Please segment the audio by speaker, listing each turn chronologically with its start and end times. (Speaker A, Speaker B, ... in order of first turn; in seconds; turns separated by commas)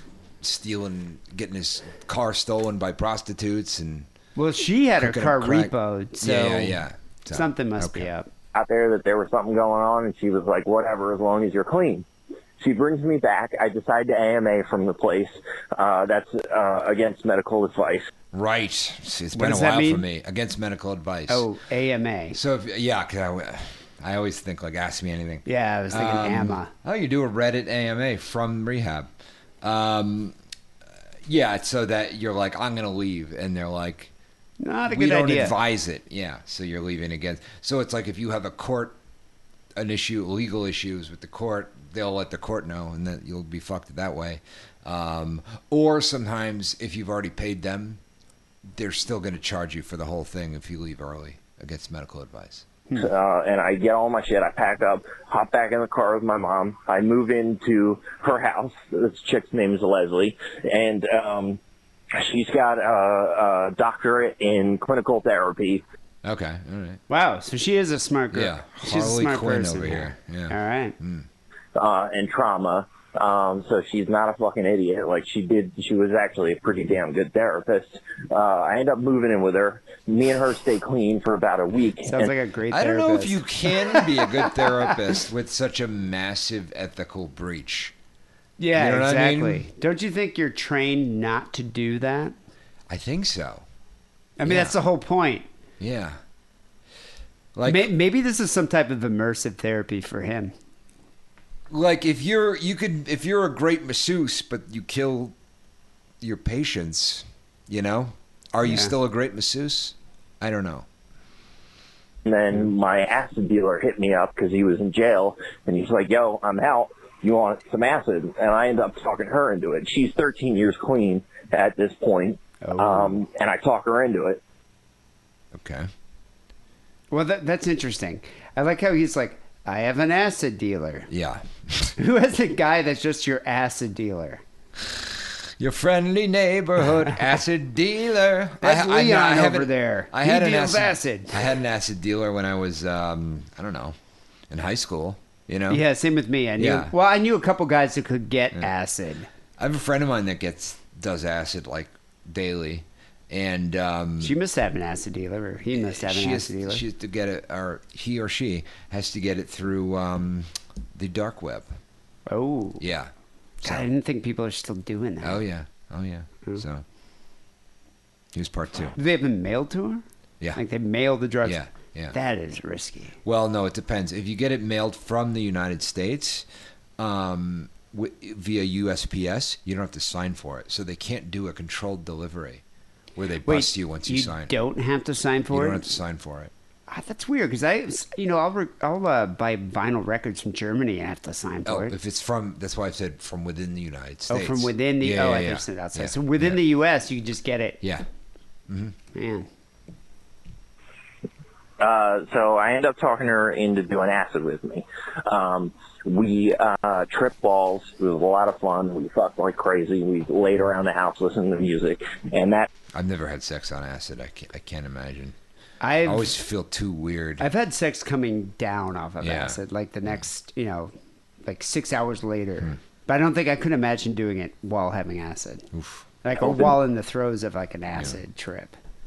Speaker A: 0.4-4.1, Speaker B: 4.4-8.3, Speaker A: 5.0-8.1, Speaker C: 8.5-12.1, Speaker C: 12.6-18.1, Speaker A: 18.3-21.5, Speaker B: 19.4-20.1, Speaker B: 21.3-22.4, Speaker A: 22.3-29.1, Speaker B: 25.5-26.7, Speaker A: 29.6-30.4, Speaker A: 31.2-34.1, Speaker B: 34.6-35.5, Speaker A: 34.9-39.0, Speaker A: 39.8-48.0, Speaker A: 48.7-52.7, Speaker C: 52.9-61.6, Speaker C: 62.1-65.8, Speaker A: 66.2-67.0, Speaker B: 67.1-71.0, Speaker A: 68.3-71.3, Speaker C: 71.8-82.3, Speaker B: 82.1-85.0, Speaker A: 82.7-87.9, Speaker B: 88.6-92.3, Speaker A: 88.8-89.7, Speaker A: 92.9-93.7, Speaker B: 94.4-95.5, Speaker A: 94.5-94.8, Speaker A: 95.8-96.2, Speaker A: 97.5-97.9, Speaker B: 97.6-100.5, Speaker A: 101.7-105.3, Speaker A: 106.2-110.9, Speaker B: 108.7-108.9, Speaker C: 112.3-124.4, Speaker B: 122.6-123.2, Speaker A: 125.5-125.9, Speaker B: 127.1-131.1, Speaker A: 131.1-131.9, Speaker B: 132.0-134.4, Speaker A: 134.8-144.0, Speaker B: 138.6-141.5, Speaker A: 144.5-145.8, Speaker B: 145.7-149.3, Speaker A: 146.6-146.9, Speaker A: 149.6-154.3, Speaker B: 154.2-156.8, Speaker A: 155.7-161.8, Speaker B: 162.3-162.8, Speaker A: 162.8-163.9, Speaker B: 163.6-165.4, Speaker A: 165.2-166.8, Speaker A: 168.3-169.0, Speaker B: 169.0-170.0, Speaker B: 170.6-171.6, Speaker A: 171.4-172.2, Speaker B: 172.1-173.2, Speaker A: 173.2-176.5, Speaker A: 177.0-182.6, Speaker A: 183.2-184.6, Speaker B: 183.5-186.0, Speaker A: 185.5-186.5, Speaker B: 186.9-191.9, Speaker A: 191.7-196.6, Speaker B: 194.3-197.8, Speaker A: 198.7-199.0, Speaker B: 199.1-199.5, Speaker C: 201.8-212.7, Speaker A: 212.9-215.4, Speaker B: 215.8-216.3, Speaker A: 216.0-217.5, Speaker B: 217.4-220.9, Speaker A: 219.2-220.1, Speaker B: 221.4-225.7, Speaker A: 225.7-226.0, Speaker B: 226.2-228.8, Speaker C: 226.4-226.8